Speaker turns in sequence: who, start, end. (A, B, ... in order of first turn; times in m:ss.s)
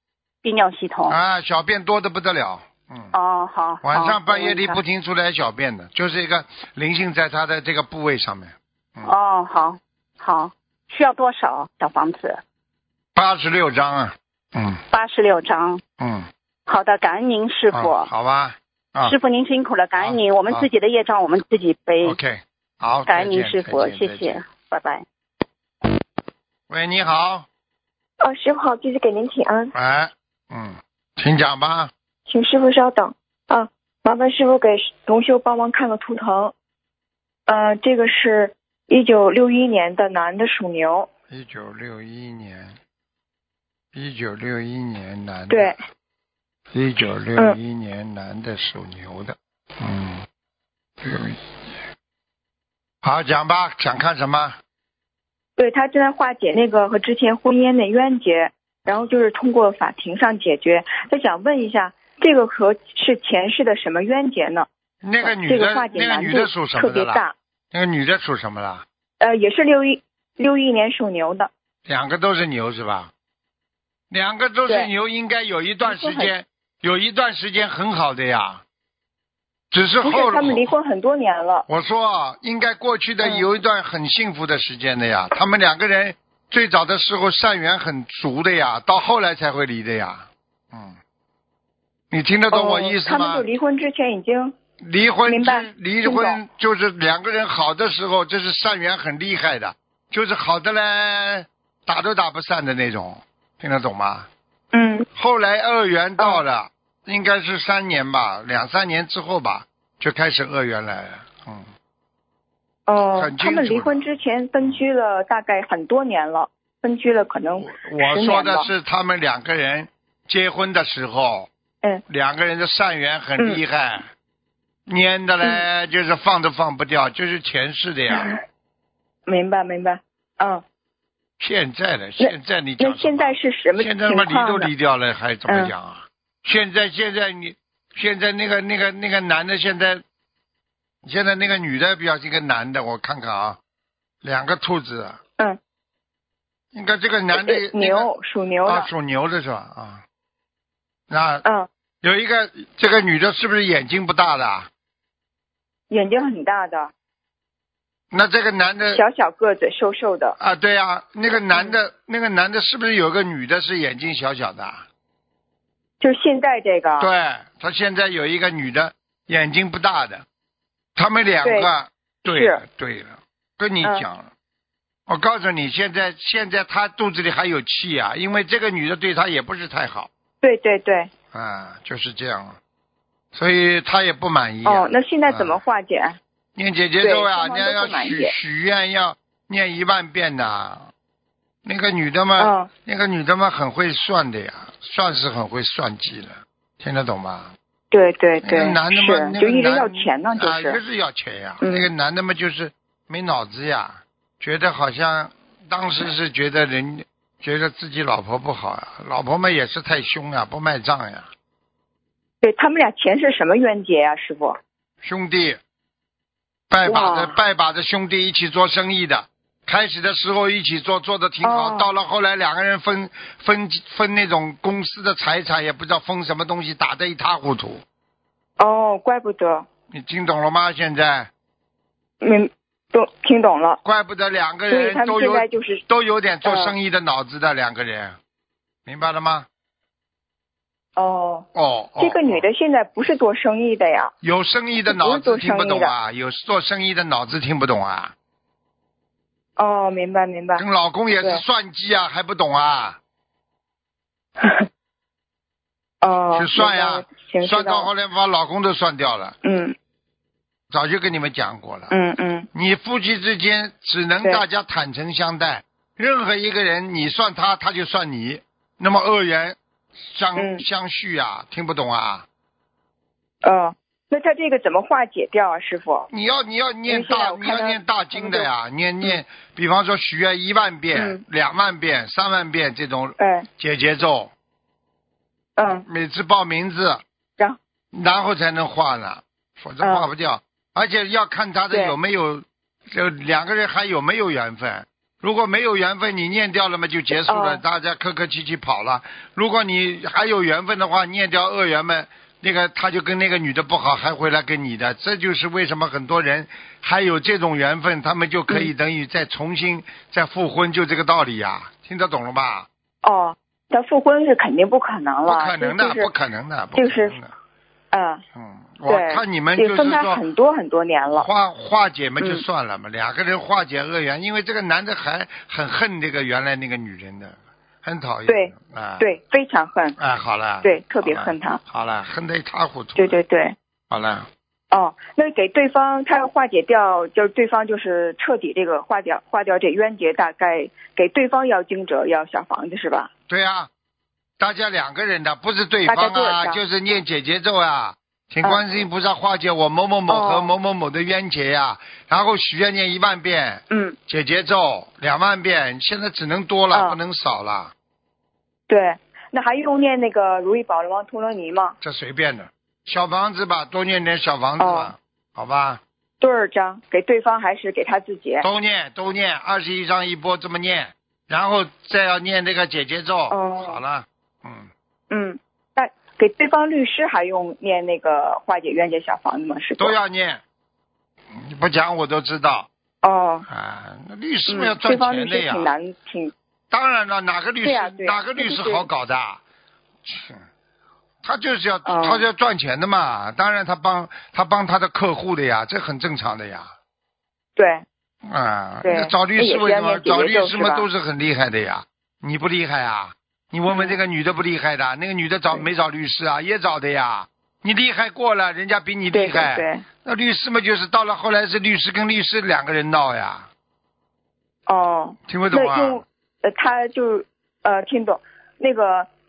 0:00.4-0:01.2 A
0:01.1-0:03.1 B
0:03.1-0:04.8 A
0:03.8-0:09.1 B
0:09.0-0:12.4 A
0:13.1-0:14.8 B
0:14.9-0:15.8 A
0:16.0-0:16.3 B
0:16.7-0:18.1 A
0:17.7-0:19.1 B
0:19.0-0:22.2 A
0:20.0-0:20.7 B
0:22.0-0:24.4 B
0:23.1-0:25.0 A
0:26.7-0:27.5 B
0:28.2-0:29.7 C
0:29.7-0:31.9 B
0:32.3-0:36.5 C
0:37.5-0:41.1 C
0:41.3-0:42.8 B
0:43.9-0:45.7 B
0:45.5-0:45.8 C
0:46.7-0:50.2 B
0:51.0-0:51.8 B
0:53.0-0:54.6 B
0:55.6-1:04.7 C
1:05.0-1:08.8 B
1:05.2-1:07.3 C
1:09.2-1:11.5 C
1:11.8-1:13.1 B
1:14.1-1:18.6 B
1:15.8-1:16.3 C
1:19.7-1:20.7 B
1:20.0-1:21.6 C
1:21.7-1:31.0 B
1:32.1-1:33.4 B
1:32.5-1:34.6 C
1:34.8-1:44.3 B
1:35.3-1:36.4 C
1:44.7-1:45.1 C
1:45.1-1:51.7 B
1:52.9-1:58.7 C
1:53.2-1:54.0 B
1:57.6-2:01.5 B
2:02.1-2:04.1 B
2:04.9-2:08.3 B
2:08.1-2:08.4 C
2:09.3-2:10.6 C
2:11.4-2:20.0 B
2:12.2-2:14.7 C
2:15.5-2:15.7 C
2:21.0-2:23.6 B
2:24.2-2:25.2 B
2:26.7-2:28.1 B
2:27.3-2:28.9 C
2:28.6-2:30.0 B
2:31.1-2:31.4 B
2:32.0-2:34.7 B
2:35.9-2:36.9 C
2:38.1-2:39.0 B
2:38.9-2:40.4 C
2:40.4-2:44.8 B
2:41.3-2:41.8 C
2:46.0-2:47.1 C
2:47.0-2:50.2 B
2:51.0-2:54.3 B
2:51.4-2:51.7 C
2:52.2-2:52.6 C
2:55.1-3:00.1 B
3:00.4-3:01.1 C
3:01.3-3:02.6 B
3:03.3-3:05.6 B
3:04.6-3:06.2 C
3:06.5-3:10.9 B
3:07.0-3:08.3 C
3:11.6-3:17.5 B
3:12.4-3:12.7 C
3:17.9-3:20.8 C
3:18.4-3:31.3 B
3:21.6-3:21.9 C
3:32.4-3:34.6 C
3:35.0-3:35.6 B
3:36.7-3:47.8 B
3:36.8-3:37.4 C
3:41.4-3:41.9 C
3:48.6-3:49.7 C
3:49.9-3:51.3 B
3:52.2-3:53.8 C
3:53.8-3:58.2 B
3:54.7-3:55.8 C
3:56.4-3:56.7 C
3:58.8-3:59.5 B
4:01.0-4:01.5 C
4:01.5-4:02.5 B
4:02.0-4:04.1 C
4:04.2-4:08.1 B
4:04.9-4:05.9 C
4:09.6-4:10.6 C
4:10.6-4:13.0 B
4:14.4-4:14.7 C
4:16.0-4:17.9 C
4:16.3-4:19.4 B
4:19.4-4:19.7 C
4:20.7-4:21.9 B
4:21.9-4:22.5 C
4:22.5-4:32.3 B
4:30.4-4:30.6 C
4:33.4-4:36.1 C
4:36.1-4:44.3 B
4:36.9-4:38.5 C
4:40.9-4:41.2 C
4:43.2-4:43.5 C
4:45.6-4:45.8 C
4:45.8-4:47.0 B
4:47.9-5:12.7 B
4:49.8-4:50.1 C
4:57.2-4:57.6 C
5:13.0-5:16.1 C
5:15.2-5:17.3 B
5:16.8-5:17.2 C
5:17.9-5:18.2 C
5:18.3-5:20.2 B
5:18.9-5:21.3 C
5:21.1-5:29.1 B
5:28.3-5:30.0 C
5:30.0-5:33.2 B
5:30.6-5:31.6 C
5:33.0-5:33.5 C
5:33.9-5:34.3 B
5:34.7-5:43.1 C
5:43.3-5:43.7 B
5:44.4-5:57.7 B
5:45.8-5:46.6 C
5:50.1-5:50.5 C
5:53.7-5:54.0 C
5:56.7-5:57.0 C
5:58.7-6:01.8 C
6:01.8-6:05.8 B
6:04.6-6:04.9 C
6:06.2-6:08.4 C
6:08.4-6:14.7 B
6:13.3-6:13.8 C
6:15.1-6:20.0 C
6:19.8-6:20.4 B
6:21.3-6:22.7 B
6:23.0-6:23.4 C
6:23.5-6:25.7 B
6:24.5-6:26.3 C
6:26.7-6:29.4 B
6:27.6-6:28.9 C
6:30.0-6:30.4 B
6:31.2-6:36.7 B
6:31.8-6:32.2 C
6:37.6-6:37.8 C
6:38.2-6:53.5 B
6:38.8-6:40.9 C
6:43.7-6:44.0 C
6:49.1-6:49.8 C
6:54.7-6:59.1 C
6:55.3-6:56.0 B